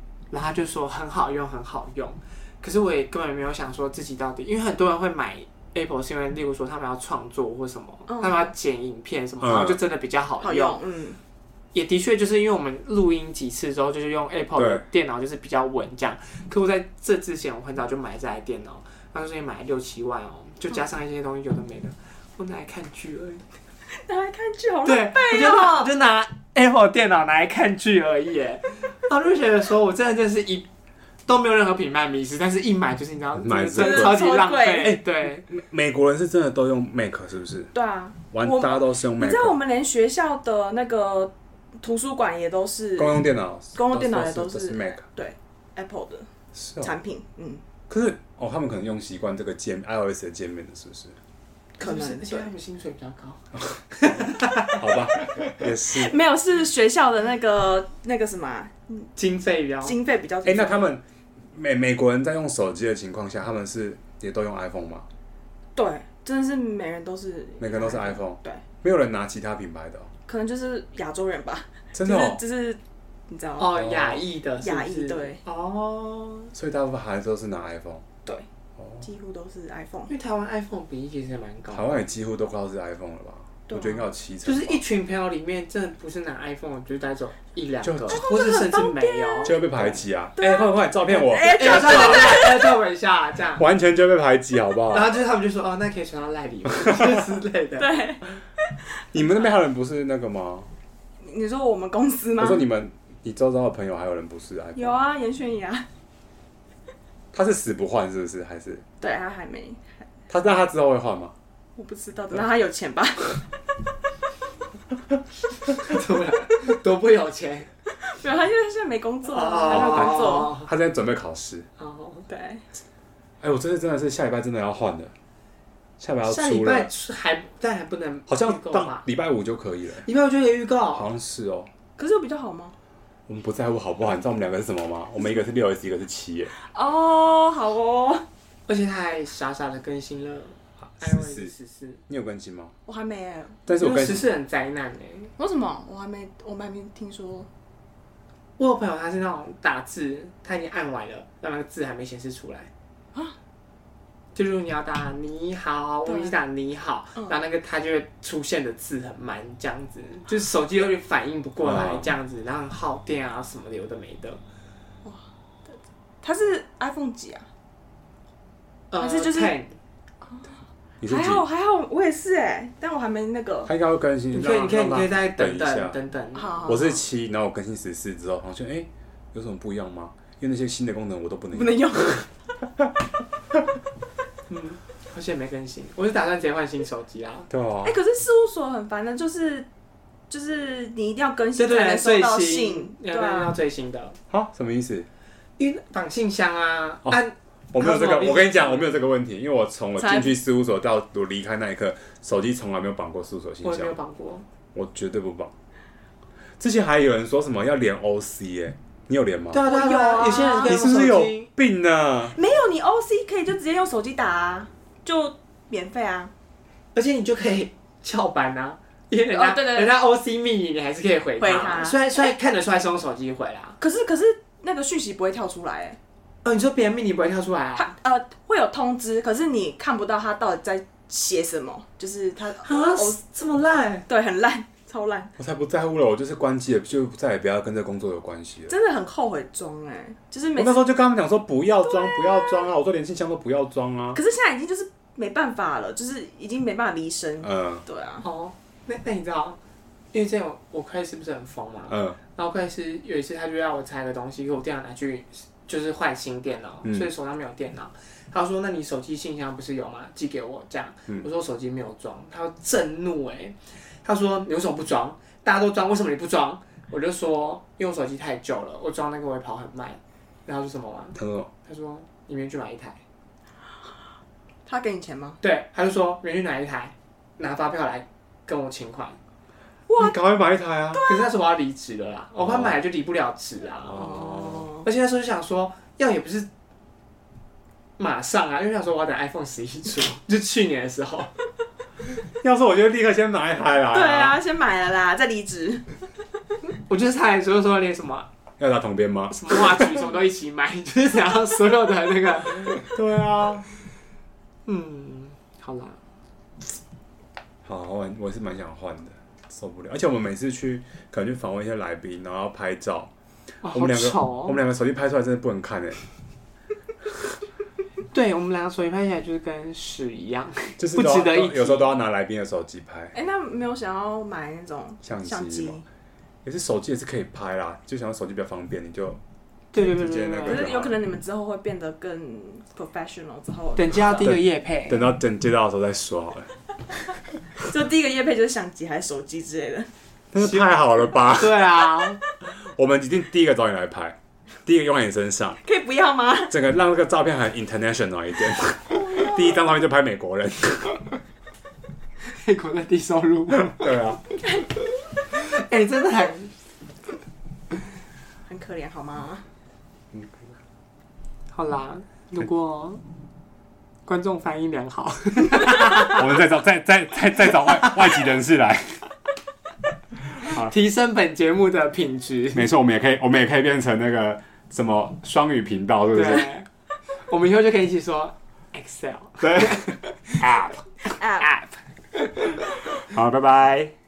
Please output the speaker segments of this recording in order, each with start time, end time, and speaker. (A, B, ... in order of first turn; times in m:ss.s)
0:00.3-0:10.8 A
0:08.1-0:08.5 B
0:09.4-0:09.8 C
0:10.4-0:11.2 B
0:11.7-0:23.4 A
0:14.6-0:14.8 C
0:23.9-0:25.9 B
0:24.8-0:30.7 A
0:31.3-0:35.5 A
0:33.4-0:37.7 C
0:33.8-0:35.0 B
0:37.7-0:43.2 B
0:38.3-0:39.6 C
0:43.0-0:45.0 C
0:43.7-0:46.3 B
0:46.5-0:46.9 C
0:46.8-0:47.6 B
0:47.9-0:51.2 C
0:51.8-0:55.6 A
0:51.8-0:52.5 B
0:53.6-0:56.1 C
0:55.8-0:59.1 B
0:59.2-1:00.0 A
0:59.8-1:00.9 B
1:00.4-1:05.0 C
1:05.8-1:08.6 B
1:07.6-1:10.1 C
1:10.3-1:13.8 B
1:11.9-1:12.4 C
1:13.6-1:16.5 A
1:13.7-1:14.2 C
1:14.6-1:15.4 B
1:16.5-1:18.0 C
1:18.8-1:19.0 C
1:19.0-1:20.1 B
1:20.1-1:22.0 A
1:21.7-1:24.8 C
1:23.7-1:24.0 B
1:24.4-1:30.0 A
1:27.8-1:28.2 C
1:28.1-1:29.5 B
1:29.4-1:32.5 C
1:30.4-1:32.7 B
1:31.4-1:33.7 A
1:33.6-1:35.1 C
1:34.9-1:38.1 A
1:37.8-1:38.3 B
1:39.1-1:40.7 C
1:41.2-1:42.6 B
1:42.4-1:45.0 C
1:44.7-1:45.9 B
1:47.3-1:48.8 C
1:49.0-1:50.0 B
1:50.3-1:51.3 C
1:51.8-1:53.5 B
1:55.7-1:57.7 A
1:58.0-2:00.5 B
1:59.3-2:00.7 A
1:59.7-2:01.7 C
2:01.8-2:02.2 A
2:02.3-2:02.6 B
2:03.4-2:05.1 C
2:06.0-2:06.9 C
2:06.3-2:09.0 A
2:08.3-2:10.1 C
2:10.0-2:11.1 A
2:10.9-2:11.7 C
2:12.0-2:12.8 B
2:13.3-2:16.5 C
2:16.5-2:18.2 B
2:18.7-2:22.0 A
2:21.0-2:21.5 C
2:22.1-2:22.7 C
2:22.8-2:23.6 B
2:23.7-2:24.3 C
2:23.8-2:25.3 A
2:25.4-2:27.5 B
2:28.6-2:32.7 A
2:34.3-2:44.4 A
2:36.0-2:36.3 B
2:41.6-2:42.1 C
2:45.0-2:47.4 B
2:48.9-2:49.8 A
2:49.0-2:49.6 B
2:51.0-2:51.4 C
2:51.1-2:53.7 B
2:53.6-2:56.0 C
2:54.3-2:56.8 A
2:56.4-2:57.0 B
2:56.7-3:02.2 C
3:01.5-3:02.3 B
3:04.5-3:07.5 A
3:07.5-3:08.0 C
3:07.8-3:09.7 B
3:10.3-3:13.5 B
3:11.6-3:14.2 A
3:14.3-3:15.1 C
3:15.6-3:19.0 A
3:17.7-3:24.0 C
3:20.0-3:20.4 B
3:23.6-3:24.4 A
3:24.7-3:25.5 C
3:26.6-3:29.6 C
3:29.5-3:31.5 A
3:29.6-3:30.7 B
3:30.6-3:32.4 C
3:32.3-3:36.3 B
3:36.9-3:43.8 A
3:39.3-3:40.0 B
3:41.4-3:42.1 B
3:43.8-3:46.0 B
3:46.4-3:47.9 A
3:47.7-3:53.2 B
3:52.6-3:54.0 A
3:54.1-3:55.3 B
3:55.4-3:58.7 C
3:58.7-4:00.8 B
4:00.6-4:04.2 C
4:01.8-4:02.7 B
4:04.1-4:08.3 B
4:07.4-4:07.8 C
4:08.2-4:09.6 A
4:10.1-4:33.0 A
4:11.9-4:12.2 C
4:16.8-4:17.1 C
4:31.2-4:31.5 C
4:34.6-4:35.4 B
4:35.4-4:39.2 A
4:39.9-4:41.0 C
4:40.9-4:41.2 B
4:41.0-4:46.5 A
4:42.4-4:42.8 C
4:43.9-4:44.6 C
4:43.9-4:44.8 B
4:48.0-4:51.3 A
4:52.4-4:54.4 C
4:53.9-4:55.9 B
4:56.9-4:58.3 A
4:58.6-5:00.0 C
4:59.3-5:02.9 A
5:02.7-5:03.7 C
5:04.6-5:06.0 A
5:07.6-5:13.1 C
5:13.6-5:14.6 A
5:13.7-5:16.0 C
5:18.1-5:21.9 A
5:20.8-5:23.1 C
5:23.1-5:25.8 B
5:25.0-5:25.8 C
5:26.4-5:29.2 C
5:29.7-5:30.7 A
5:29.8-5:30.9 C
5:30.4-5:34.3 B
5:33.8-5:35.1 A
5:34.2-5:36.5 C
5:37.6-5:39.9 B
5:40.3-5:41.7 C
5:40.4-5:40.6 A
5:41.3-5:42.2 A
5:42.4-5:45.6 C
5:45.6-5:46.5 B
5:46.5-5:51.2 C
5:52.2-5:54.0 A
5:53.6-5:54.2 C
5:55.3-5:56.5 A
5:58.4-5:59.4 B
6:00.1-6:00.5 C
6:01.5-6:03.0 A
6:04.0-6:06.2 A
6:06.0-6:09.0 C
6:10.4-6:10.7 C
6:10.4-6:12.7 A
6:12.5-6:16.5 C
6:16.1-6:16.6 A
6:17.3-6:22.6 A
6:19.4-6:19.8 C
6:20.4-6:20.8 C
6:21.0-6:21.5 B
6:22.9-6:23.9 C